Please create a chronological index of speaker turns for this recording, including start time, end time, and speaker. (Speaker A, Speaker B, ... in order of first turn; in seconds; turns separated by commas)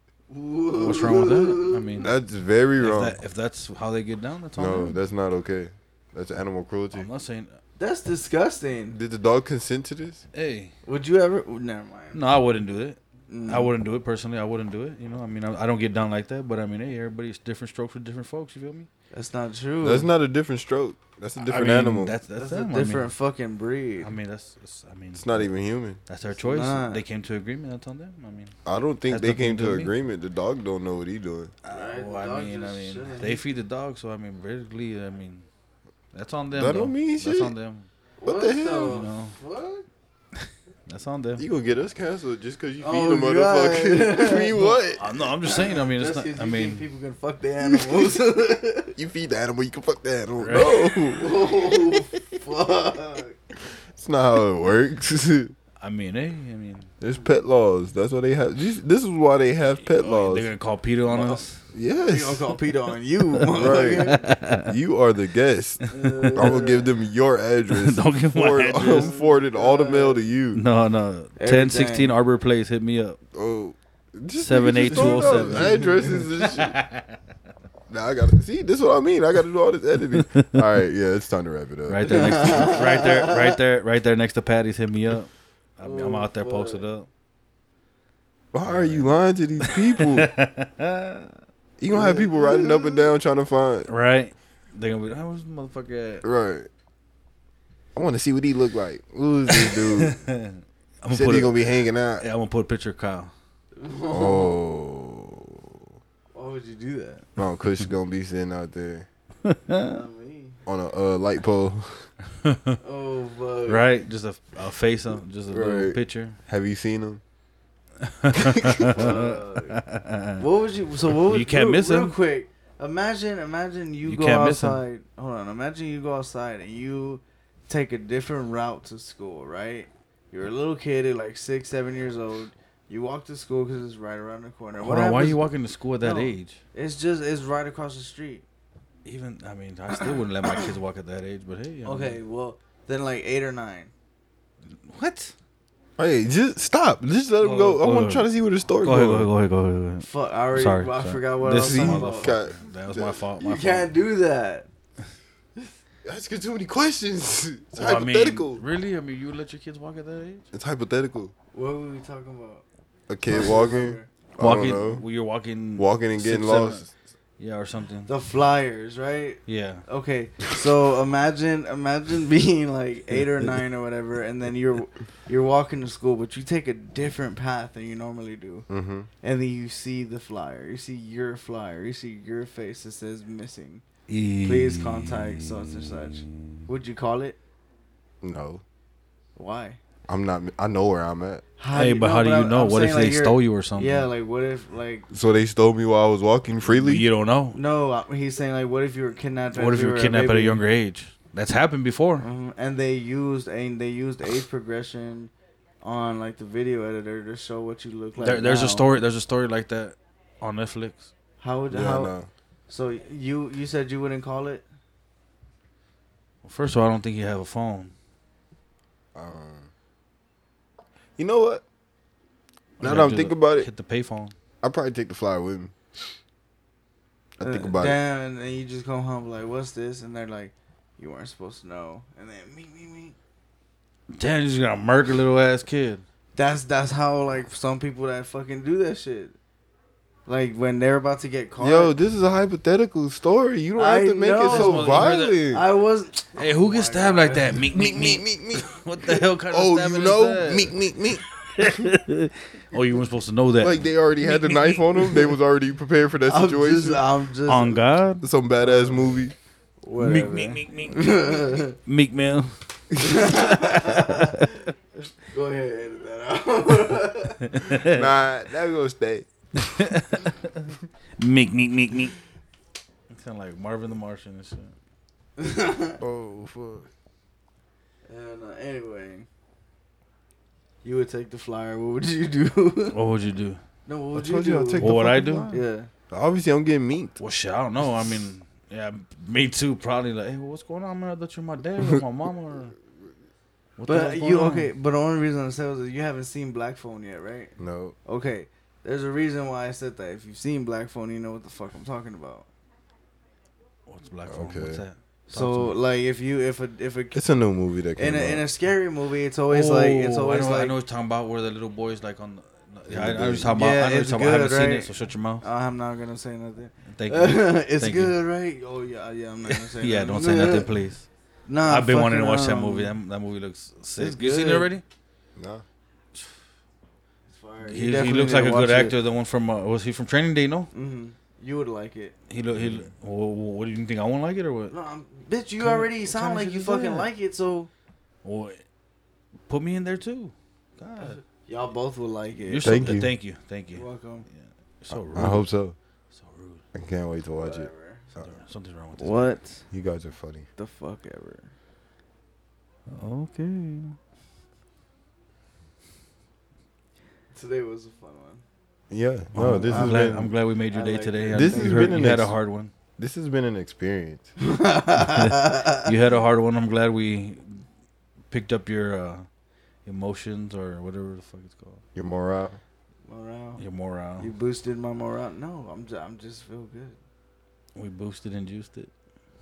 Speaker A: 0.3-2.0, Speaker B: 0.7-2.1, Speaker C: 2.0-3.2, Speaker B: 2.8-5.0, Speaker C: 4.5-7.1, Speaker B: 6.9-7.6, Speaker A: 7.8-9.0, Speaker C: 8.9-10.2, Speaker B: 10.3-10.7, Speaker A: 10.8-12.2, Speaker B: 12.1-18.9, Speaker A: 13.3-13.7, Speaker A: 19.1-20.1, Speaker C: 19.8-22.2, Speaker B: 21.4-23.1, Speaker A: 22.4-24.1, Speaker B: 24.0-25.5, Speaker C: 25.1-26.0, Speaker B: 26.1-29.9, Speaker A: 26.4-27.0, Speaker C: 28.6-31.5, Speaker B: 31.6-35.5, Speaker A: 31.7-33.4, Speaker B: 36.1-37.9, Speaker C: 36.5-37.5, Speaker A: 38.2-39.9, Speaker C: 38.2-39.0, Speaker B: 38.8-39.4, Speaker B: 40.3-41.4, Speaker C: 41.4-45.1, Speaker A: 42.8-44.8, Speaker B: 44.5-46.8, Speaker A: 45.4-48.9, Speaker C: 47.6-48.1, Speaker C: 49.0-51.3, Speaker B: 50.4-50.9, Speaker A: 50.5-53.4, Speaker C: 53.9-55.5, Speaker B: 55.8-56.9, Speaker C: 57.0-60.5, Speaker B: 59.8-61.6, Speaker A: 61.1-61.5, Speaker C: 61.7-62.5, Speaker A: 62.1-64.2, Speaker B: 63.5-64.7, Speaker C: 63.5-65.8, Speaker A: 65.9-66.9, Speaker B: 66.0-66.5, Speaker C: 66.3-70.6, Speaker B: 67.7-69.1, Speaker A: 68.8-70.2, Speaker B: 70.5-73.2, Speaker A: 71.4-72.1, Speaker C: 73.3-76.8, Speaker B: 74.4-77.2, Speaker A: 74.8-76.2, Speaker C: 77.9-82.8, Speaker B: 80.1-80.5, Speaker B: 81.9-87.1, Speaker A: 82.1-83.6, Speaker A: 85.8-86.8, Speaker C: 88.5-90.3, Speaker B: 88.7-91.3, Speaker C: 91.8-93.9, Speaker A: 91.9-93.1, Speaker B: 93.9-96.2, Speaker C: 96.2-96.7, Speaker C: 97.9-100.2, Speaker B: 99.5-103.3, Speaker C: 101.1-102.2, Speaker A: 103.7-104.6, Speaker C: 104.1-105.9, Speaker A: 106.3-107.3, Speaker C: 107.3-109.1, Speaker B: 109.5-109.9, Speaker A: 109.8-110.6, Speaker C: 110.7-112.1, Speaker B: 112.4-112.8, Speaker A: 112.8-113.9, Speaker B: 113.7-116.4, Speaker C: 115.5-117.2, Speaker B: 118.0-120.4, Speaker C: 118.3-118.9, Speaker A: 118.9-119.8, Speaker A: 120.4-138.4, Speaker B: 121.1-122.2, Speaker B: 124.0-124.8, Speaker B: 134.8-136.6, Speaker B: 139.0-142.2, Speaker A: 141.8-143.9, Speaker B: 144.6-145.3, Speaker C: 146.0-149.3, Speaker B: 147.4-148.3, Speaker B: 148.8-154.0, Speaker A: 150.0-152.3, Speaker C: 151.5-153.2, Speaker A: 153.4-154.7, Speaker C: 156.0-158.6, Speaker B: 157.7-160.4, Speaker C: 160.5-161.3, Speaker A: 161.5-162.6, Speaker C: 163.1-165.0, Speaker A: 163.3-164.1, Speaker B: 164.4-168.1, Speaker C: 165.8-166.9, Speaker A: 168.1-178.7, Speaker B: 169.4-169.8, Speaker C: 178.7-179.1, Speaker A: 179.2-183.8, Speaker B: 184.1-186.5, Speaker A: 184.4-187.4, Speaker C: 188.2-188.6, Speaker A: 189.3-189.8, Speaker C: 190.1-191.4, Speaker A: 191.6-195.1, Speaker B: 191.7-194.1, Speaker C: 195.1-197.1, Speaker B: 196.7-197.6, Speaker A: 197.5-200.6, Speaker B: 199.5-202.2, Speaker A: 202.2-209.0, Speaker B: 208.2-211.1, Speaker A: 211.4-212.1, Speaker C: 211.7-212.3, Speaker A: 212.7-214.6, Speaker B: 216.4-217.9, Speaker C: 219.1-219.7, Speaker C: 221.2-221.6, Speaker C: 222.8-223.7, Speaker B: 222.8-224.3, Speaker C: 224.6-225.7, Speaker C: 227.4-228.0, Speaker A: 227.4-233.2, Speaker B: 234.1-236.0, Speaker A: 236.3-239.4, Speaker A: 240.2-241.9, Speaker C: 241.6-245.6, Speaker A: 243.8-247.6, Speaker B: 244.4-245.4, Speaker B: 246.3-250.8, Speaker C: 247.7-251.9, Speaker B: 251.3-253.8, Speaker C: 253.6-257.0, Speaker A: 256.2-257.9, Speaker B: 257.5-258.3, Speaker C: 258.2-259.3, Speaker A: 258.6-259.2, Speaker A: 259.8-261.7, Speaker B: 260.0-264.4, Speaker A: 263.0-264.6, Speaker A: 265.3-267.7, Speaker B: 267.5-268.1, Speaker C: 267.8-269.3, Speaker B: 269.6-272.2, Speaker B: 273.1-274.7, Speaker A: 275.4-276.0, Speaker C: 276.0-276.9, Speaker A: 278.1-279.3, Speaker A: 280.8-283.0, Speaker B: 282.9-283.6, Speaker A: 283.9-284.9, Speaker C: 284.1-287.2, Speaker B: 284.8-285.6, Speaker A: 285.5-285.9, Speaker B: 287.2-292.7, Speaker B: 293.8-294.7, Speaker A: 293.9-297.5, Speaker C: 297.6-297.9, Speaker A: 298.1-302.5, Speaker B: 303.9-305.8, Speaker C: 304.2-304.8, Speaker A: 305.3-307.2, Speaker C: 307.1-308.4, Speaker A: 308.0-310.7, Speaker B: 309.5-315.4, Speaker C: 312.9-313.5, Speaker A: 313.5-320.7, Speaker B: 316.8-318.1, Speaker B: 319.4-321.1, Speaker A: 321.5-322.9, Speaker B: 321.6-324.8, Speaker A: 324.0-324.7, Speaker C: 325.4-325.6, Speaker A: 327.3-328.9, Speaker B: 327.6-330.7, Speaker A: 330.7-332.1, Speaker B: 332.3-334.7, Speaker C: 332.5-332.9, Speaker A: 334.7-337.7, Speaker B: 335.6-337.1, Speaker B: 338.2-338.6, Speaker B: 339.5-341.2, Speaker A: 341.0-342.9, Speaker B: 342.5-345.5, Speaker C: 342.6-343.1, Speaker A: 343.7-344.2, Speaker C: 345.0-345.8, Speaker B: 346.1-346.6, Speaker C: 346.7-348.3, Speaker A: 347.3-348.1, Speaker B: 348.1-349.4, Speaker A: 349.0-349.6, Speaker C: 349.7-350.5, Speaker A: 350.6-351.5, Speaker B: 352.9-354.0, Speaker A: 357.3-358.4, Speaker C: 358.9-360.3, Speaker B: 359.3-362.7, Speaker A: 359.4-360.2, Speaker A: 360.7-362.1, Speaker C: 361.3-362.3, Speaker C: 363.0-364.3, Speaker A: 364.4-365.9, Speaker B: 365.0-367.6, Speaker B: 368.3-369.3, Speaker B: 369.9-371.8, Speaker C: 371.9-372.6, Speaker A: 373.1-373.6, Speaker B: 373.6-374.3, Speaker A: 374.2-377.0, Speaker B: 377.7-378.9